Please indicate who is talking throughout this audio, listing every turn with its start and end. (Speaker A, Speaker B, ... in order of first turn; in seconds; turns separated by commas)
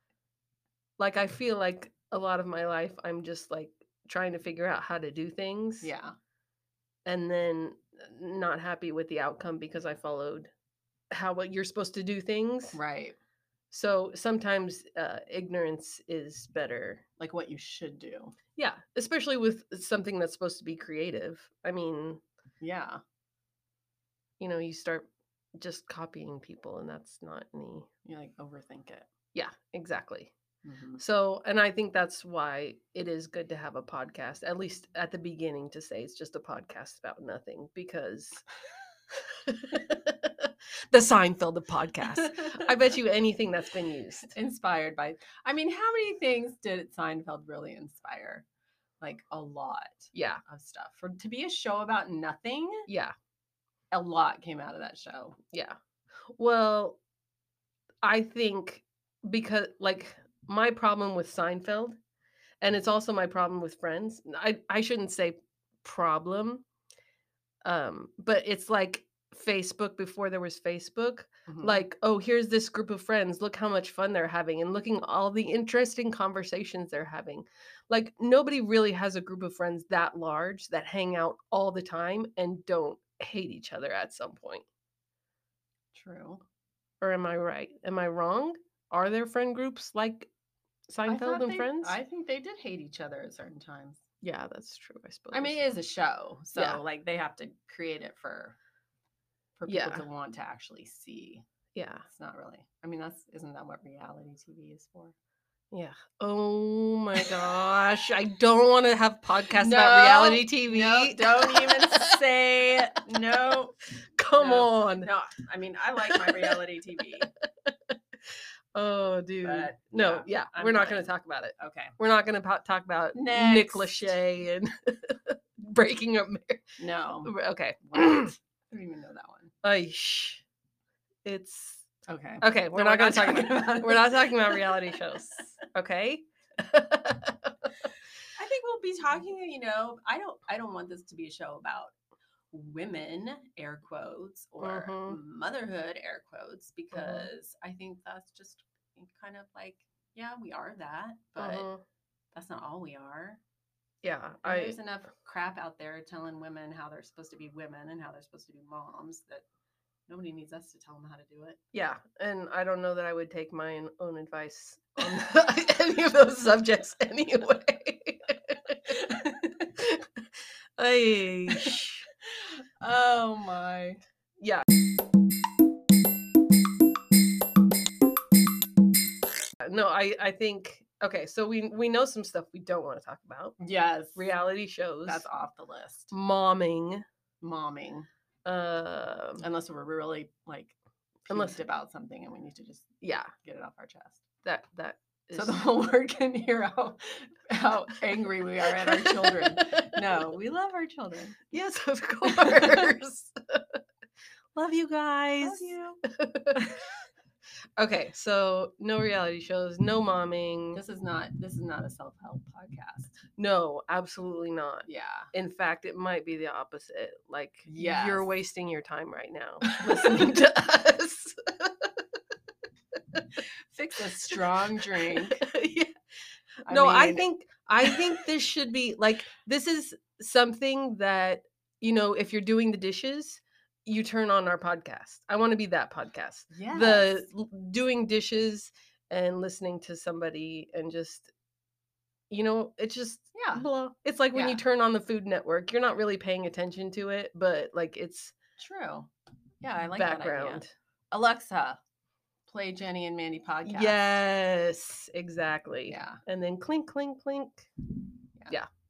Speaker A: 1.0-5.9, Speaker B: 5.8-6.2, Speaker A: 7.0-10.5, Speaker A: 11.1-12.8, Speaker B: 12.7-13.2, Speaker A: 13.7-17.0, Speaker B: 17.2-18.3, Speaker A: 18.6-22.2, Speaker B: 22.6-23.0, Speaker A: 24.4-27.9, Speaker B: 28.0-29.1, Speaker A: 29.3-30.3, Speaker B: 30.6-31.0, Speaker A: 31.0-38.5, Speaker A: 39.3-44.3, Speaker B: 44.3-48.5, Speaker B: 49.0-52.9, Speaker A: 50.1-50.4, Speaker A: 52.9-53.1, Speaker B: 53.9-55.4, Speaker A: 56.3-57.0, Speaker A: 58.0-62.0, Speaker A: 62.6-66.6, Speaker A: 67.6-84.6, Speaker B: 71.5-71.8, Speaker B: 85.9-86.4, Speaker A: 87.0-90.3, Speaker A: 90.9-92.0, Speaker B: 91.0-94.0, Speaker A: 94.2-95.6, Speaker B: 95.3-98.5, Speaker A: 96.5-96.8, Speaker B: 99.6-101.4, Speaker A: 99.7-100.0, Speaker A: 101.7-102.0, Speaker B: 102.1-105.2, Speaker A: 105.7-112.2, Speaker B: 109.5-113.8, Speaker A: 114.2-115.1, Speaker B: 114.3-117.3, Speaker A: 116.1-116.6, Speaker A: 118.7-128.3, Speaker B: 119.4-121.9, Speaker B: 123.1-124.2, Speaker B: 126.8-127.3, Speaker B: 127.9-129.5, Speaker A: 129.6-130.4, Speaker A: 131.2-131.8, Speaker B: 132.1-135.2, Speaker A: 132.4-137.7, Speaker B: 138.3-141.9, Speaker B: 142.5-151.7, Speaker A: 144.6-145.2, Speaker A: 146.9-147.3, Speaker A: 151.4-151.8, Speaker B: 152.3-153.4, Speaker A: 154.0-154.8, Speaker B: 154.4-159.4, Speaker B: 160.1-161.6, Speaker A: 161.7-170.2, Speaker A: 170.8-172.1, Speaker B: 172.2-174.0, Speaker A: 179.6-183.6, Speaker B: 183.6-184.3, Speaker A: 184.1-185.3, Speaker B: 185.1-186.1, Speaker A: 186.1-187.0, Speaker B: 187.4-188.1, Speaker A: 188.4-189.4, Speaker B: 189.4-194.2, Speaker A: 191.3-191.6, Speaker A: 193.0-193.3, Speaker A: 194.4-195.6, Speaker B: 195.3-201.4, Speaker A: 198.8-200.0, Speaker A: 201.5-203.8, Speaker B: 202.3-202.8, Speaker A: 204.5-206.6, Speaker B: 205.4-206.0, Speaker A: 207.8-210.8, Speaker B: 210.7-213.2, Speaker A: 213.4-221.9, Speaker B: 214.8-215.3, Speaker B: 217.7-218.3, Speaker B: 223.7-225.4, Speaker A: 225.1-225.9, Speaker B: 226.6-227.2, Speaker A: 226.7-241.3, Speaker B: 236.5-237.3, Speaker A: 242.3-248.3, Speaker B: 243.3-243.7, Speaker B: 244.3-244.6, Speaker B: 248.6-249.1, Speaker B: 249.6-251.8, Speaker A: 249.9-250.7, Speaker B: 252.5-254.1, Speaker A: 253.6-257.7, Speaker B: 255.9-256.2